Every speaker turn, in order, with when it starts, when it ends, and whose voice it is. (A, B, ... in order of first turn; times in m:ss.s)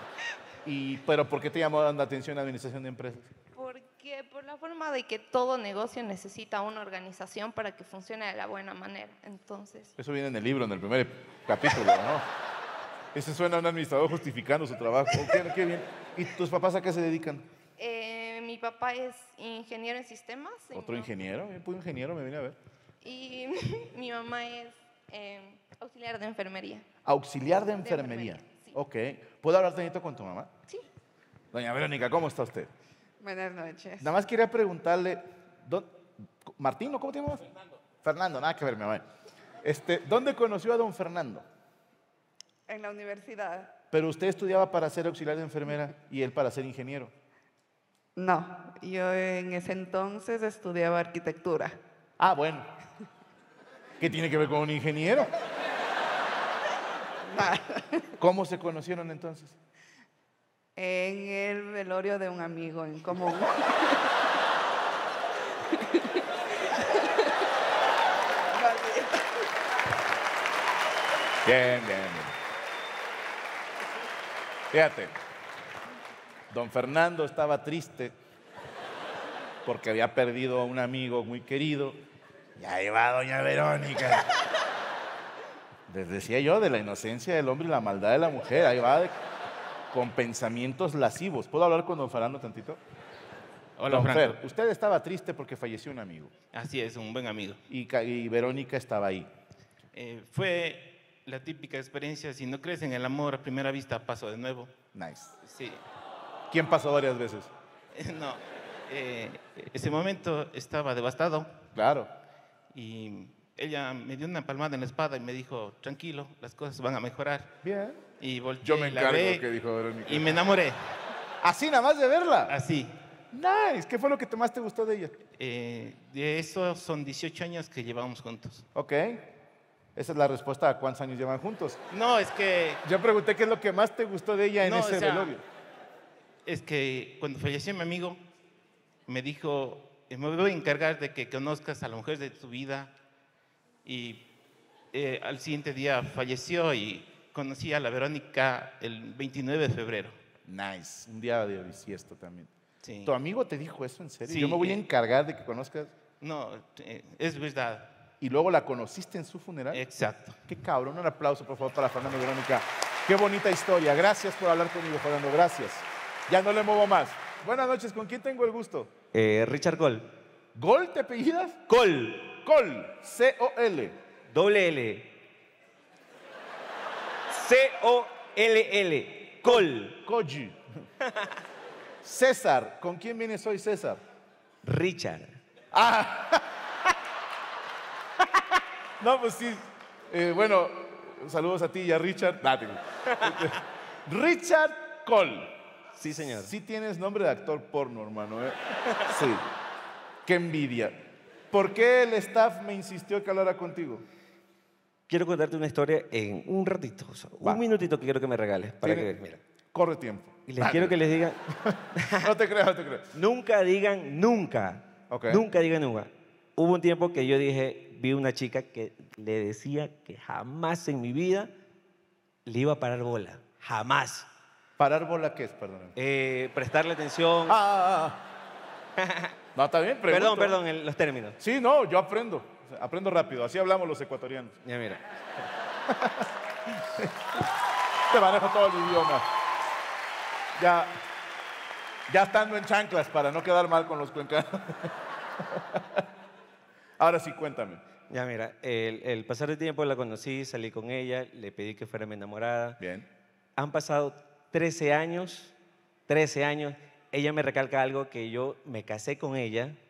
0:00.6-0:03.3 A
0:03.6-0:09.9 B
0:10.0-0:12.2 A
0:13.1-0:17.4 A
0:17.8-0:21.1 B
0:20.7-0:22.6 A
0:23.0-0:26.9 B
0:27.1-0:30.5 A
0:27.8-0:28.8 B
0:31.5-0:32.7 A
0:33.2-0:34.1 C
0:34.0-0:35.9 A
0:36.5-0:37.4 A
0:38.0-0:39.0 A
0:39.6-0:41.4 A
0:42.7-0:43.7 C
0:43.9-0:47.1 A
0:48.2-0:51.8 C
0:52.2-0:52.7 A
0:54.0-0:55.3 A
0:57.3-0:58.1 C
0:58.2-0:59.6 A
1:00.8-1:04.0 C
1:08.5-1:09.2 C
1:11.4-1:12.3 A
1:14.7-1:15.2 A
1:16.5-1:18.1 A
1:19.6-1:22.0 A
1:22.6-1:24.3 A
1:25.9-1:29.2 A
1:29.9-1:32.8 A
1:33.8-1:34.4 D
1:33.9-1:36.3 A
1:36.5-1:37.6 D
1:37.7-1:39.3 A
1:39.9-1:44.8 D
1:44.9-1:45.3 A
1:45.4-1:45.8 D
1:46.5-1:47.5 A
1:47.9-1:51.6 D
1:51.8-1:52.1 A
1:52.7-1:57.5 D
1:57.6-1:58.0 A
1:58.2-1:59.5 D
1:58.6-2:00.6 A
2:00.1-2:00.9 D
2:01.4-2:02.6 A
2:02.5-2:03.0 D
2:03.3-2:05.2 A
2:05.4-2:08.6 D
2:08.8-2:09.3 A
2:10.0-2:11.8 A
2:11.9-2:12.8 D
2:12.8-2:15.4 A
2:14.6-2:15.4 D
2:16.4-2:18.2 D
2:19.1-2:22.9 D
2:23.8-2:24.3 D
2:24.9-2:30.2 D
2:30.4-2:32.5 A
2:32.8-2:33.1 D
2:33.0-2:35.9 A
2:34.2-2:34.8 D
2:36.2-2:37.9 D
2:38.2-2:39.9 A
2:39.7-2:40.4 D
2:40.5-2:48.9 A
2:49.1-2:50.1 E
2:50.6-2:51.6 A
2:51.7-2:52.3 E
2:52.3-2:54.0 A
2:54.3-2:55.2 E
2:57.3-3:00.0 E
2:59.4-3:00.6 A
3:02.0-3:04.0 A
3:04.6-3:05.4 E
3:05.7-3:06.5 A
3:09.0-3:13.6 A
3:14.1-3:15.5 A
3:16.0-3:16.5 E
3:16.2-3:18.6 A
3:19.1-3:19.4 A
3:20.2-3:24.0 A
3:25.1-3:29.4 E
3:28.8-3:29.1 A
3:29.7-3:31.0 A
3:30.5-3:31.4 E
3:31.6-3:33.1 A
3:32.0-3:32.3 E
3:33.1-3:41.5 E
3:35.1-3:35.4 A
3:42.5-3:44.3 E
3:44.8-3:46.0 A
3:46.0-3:47.6 E
3:47.5-3:48.2 A
3:49.0-3:49.3 E
3:49.6-3:50.6 A
3:50.1-3:51.4 E
3:51.4-3:54.6 A
3:54.6-3:55.0 E
3:55.9-3:57.3 A
3:58.1-3:59.2 A
4:00.6-4:01.0 A
4:02.1-4:04.9 A
4:05.5-4:06.0 A
4:07.0-4:07.8 A
4:08.1-4:12.8 E
4:12.8-4:13.1 A
4:13.6-4:15.5 E
4:16.1-4:19.8 E